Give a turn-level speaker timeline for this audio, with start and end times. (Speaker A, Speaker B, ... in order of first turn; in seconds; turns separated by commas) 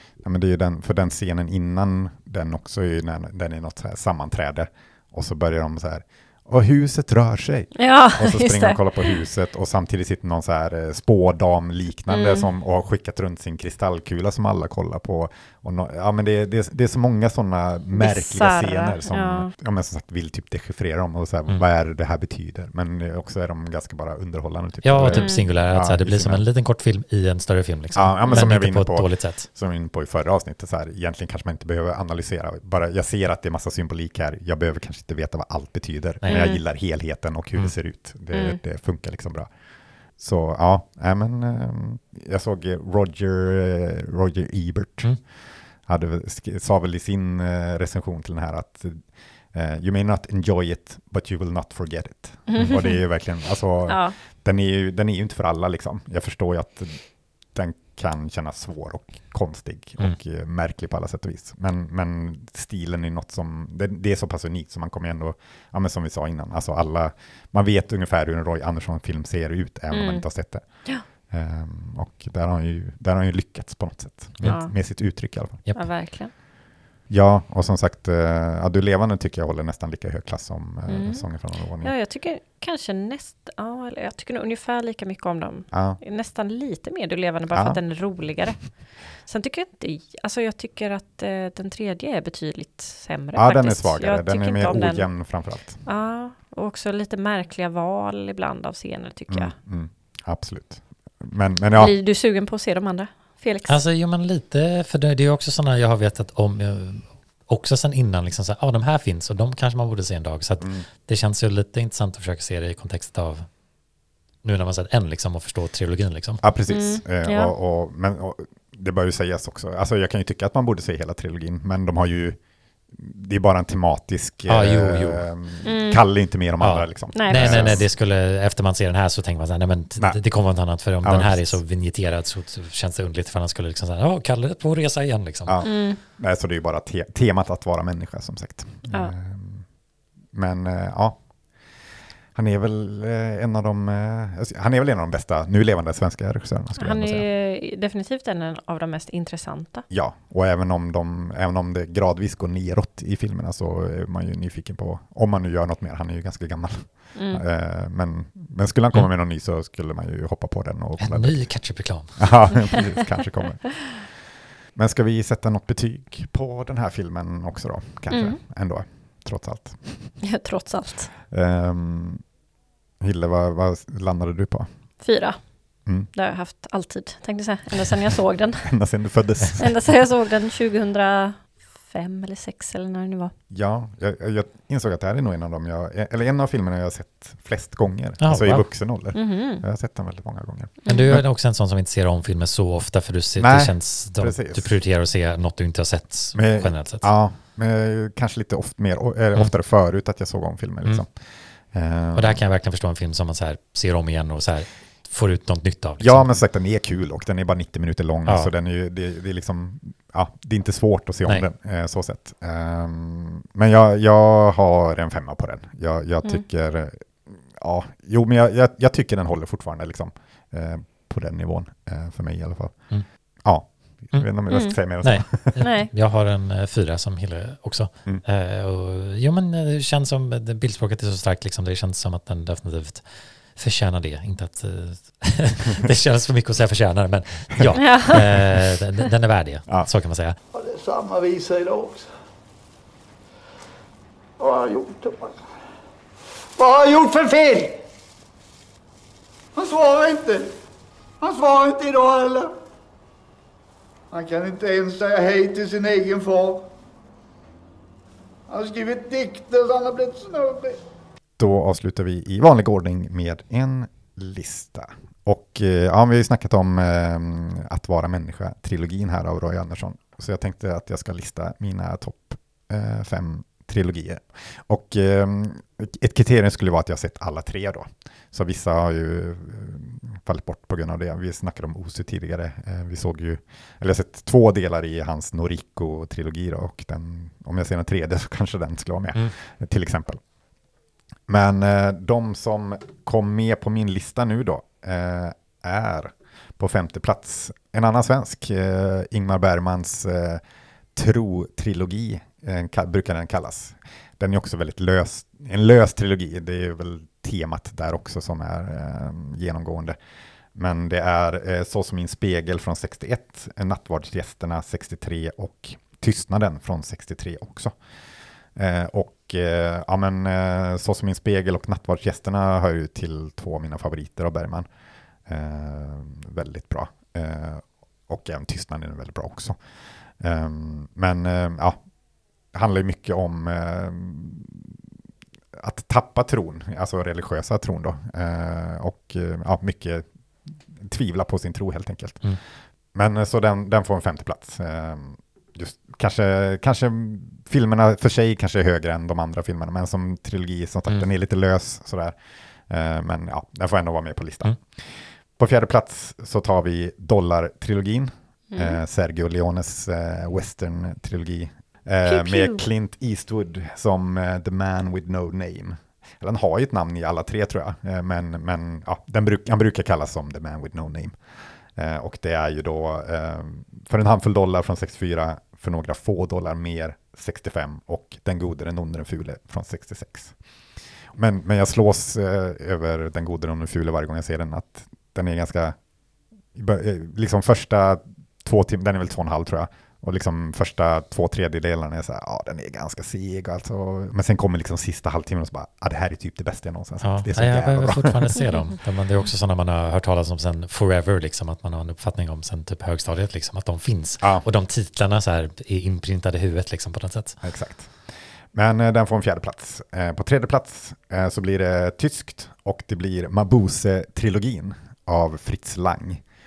Speaker A: 0.2-26.4, Speaker B: 7.8-9.2, Speaker B: 12.1-12.5, Speaker B: 17.9-19.5, Speaker C: 24.8-29.5, Speaker B: 25.1-25.4, Speaker A: 27.9-39.5, Speaker B: 36.2-36.6, Speaker B: 38.3-38.6, Speaker A: 40.2-45.3, Speaker A: 45.8-57.0, Speaker B: 52.5-53.0, Speaker B: 53.9-54.1, Speaker A: 57.5-75.6, Speaker B: 69.9-70.3, Speaker B: 74.4-74.7, Speaker B: 75.7-76.3, Speaker A: 77.1-81.9, Speaker B: 80.9-81.2, Speaker B: 81.8-95.2, Speaker A: 85.7-86.0, Speaker A: 87.5-87.8, Speaker A: 93.3-95.8, Speaker B: 95.8-99.5, Speaker A: 99.3-101.9, Speaker B: 101.8-103.8, Speaker C: 103.7-113.5, Speaker A: 110.6-110.8, Speaker C: 114.4-116.4, Speaker A: 116.4-122.4, Speaker B: 116.7-117.5, Speaker A: 122.9-127.8, Speaker C: 124.5-125.3, Speaker B: 125.6-126.0, Speaker C: 126.6-135.6, Speaker B: 127.1-127.8, Speaker A: 131.0-131.6, Speaker A: 135.4-139.7, Speaker B: 135.6-136.0, Speaker A: 140.3-141.2, Speaker A: 142.3-147.2, Speaker B: 146.8-149.8, Speaker A: 149.9-164.0, Speaker B: 157.1-157.4, Speaker C: 161.0-162.4, Speaker A: 164.7-170.2, Speaker B: 168.1-168.4, Speaker B: 170.2-171.1, Speaker A: 171.3-172.2, Speaker A: 173.0-174.7, Speaker B: 175.0-175.4, Speaker B: 176.1-178.7, Speaker A: 178.6-179.7, Speaker B: 179.6-183.3, Speaker A: 183.5-191.2, Speaker C: 188.2-188.7, Speaker B: 189.1-189.6, Speaker B: 190.8-191.1, Speaker C: 190.8-197.1, Speaker A: 193.4-194.7, Speaker A: 196.3-201.1, Speaker A: 201.7-202.4, Speaker C: 202.1-206.3, Speaker A: 206.0-222.9, Speaker C: 208.2-208.5, Speaker A: 223.4-225.6, Speaker B: 224.5-224.8, Speaker C: 225.0-240.4, Speaker B: 225.6-225.9, Speaker B: 237.8-238.2, Speaker D: 240.5-242.1, Speaker D: 244.4-245.4, Speaker D: 246.6-247.8, Speaker D: 249.5-250.5, Speaker D: 251.2-252.5, Speaker D: 254.1-256.7, Speaker D: 258.5-260.8, Speaker A: 261.4-290.2, Speaker A: 291.3-300.4, Speaker A: 300.9-310.0, Speaker A: 310.5-317.8, Speaker A: 318.6-324.7, Speaker A: 325.3-329.6, Speaker A: 330.2-331.8, Speaker A: 332.5-334.7, Speaker A: 335.5-342.4, Speaker A: 342.9-352.2, Speaker A: 352.7-371.2, Speaker B: 358.5-358.8, Speaker B: 362.0-362.6, Speaker A: 371.7-380.4, Speaker A: 381.1-385.8, Speaker A: 386.5-398.3, Speaker C: 397.0-407.4, Speaker A: 404.2-404.4, Speaker A: 407.4-408.0, Speaker A: 408.5-416.2